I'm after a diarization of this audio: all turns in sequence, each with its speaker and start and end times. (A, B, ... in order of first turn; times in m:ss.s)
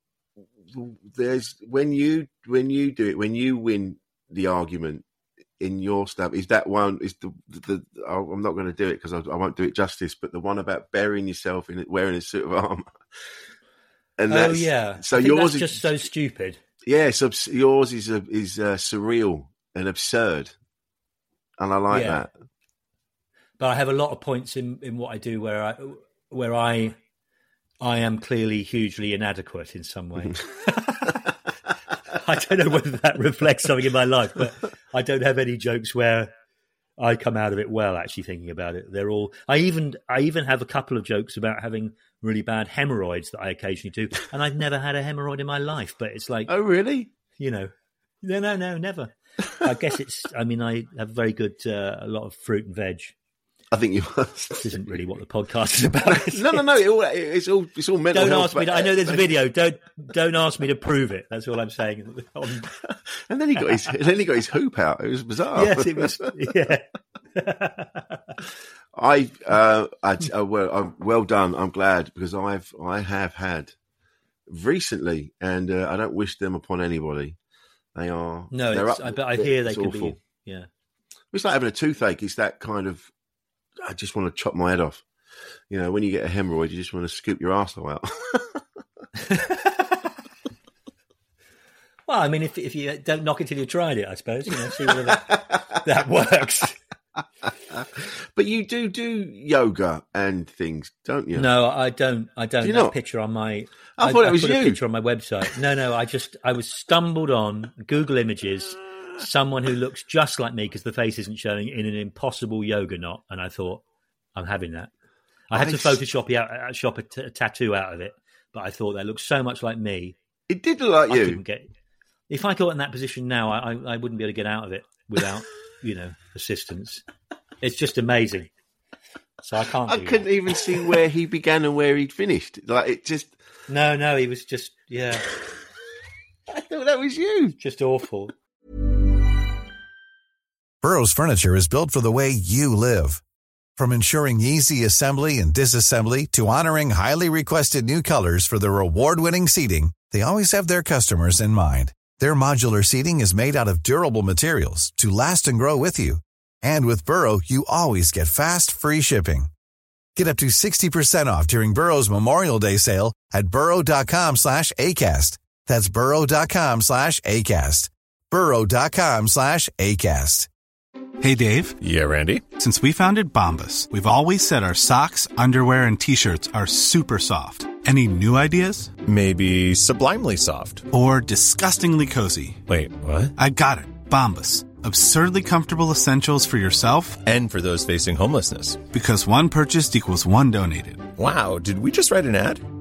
0:00.6-0:05.0 A
0:05.6-0:12.9 A
0:14.2-0:16.0 A
0:14.3-0:16.6 B
0:16.8-0:20.5 A
0:21.6-0:22.3 A
0:21.9-0:22.2 B
0:23.6-0:27.0 B
0:27.8-0:31.4 B
0:32.1-0:36.3 B
0:37.0-0:46.5 B
0:46.5-0:47.1 A
0:47.4-0:53.1 B
0:53.7-0:55.0 A
0:54.6-0:56.6 B
0:56.0-0:59.3 A
0:58.1-1:02.8 B
1:02.8-1:06.3 A
1:05.6-1:08.4 B
1:08.9-1:13.8 A
1:14.5-1:17.4 A
1:18.0-1:20.2 A
1:18.5-1:20.7 B
1:21.3-1:23.1 A
1:23.8-1:25.0 A
1:25.7-1:28.6 A
1:29.2-1:30.1 B
1:32.1-1:36.8 B
1:34.6-1:35.8 A
1:37.7-1:41.5 A
1:41.4-1:53.8 B
1:42.6-1:43.0 A
1:44.0-1:44.8 A
1:54.4-1:54.9 B
1:55.5-2:00.2 B
1:55.5-1:56.0 A
2:00.5-2:01.4 A
2:01.1-2:01.7 B
2:02.3-2:07.0 B
2:07.6-2:08.5 B
2:09.4-2:10.3 B
2:09.9-2:13.4 A
2:13.7-2:15.3 B
2:16.5-2:17.6 A
2:17.6-2:18.3 B
2:20.8-2:23.2 C
2:23.8-2:39.5 C
2:40.2-2:50.5 C
2:51.2-2:51.8 D
2:51.8-2:52.5 E
2:52.6-2:59.0 D
2:59.0-3:00.9 E
3:00.9-3:02.6 D
3:02.7-3:03.3 E
3:03.4-3:07.2 D
3:07.2-3:08.9 E
3:08.9-3:11.1 D
3:11.1-3:12.6 E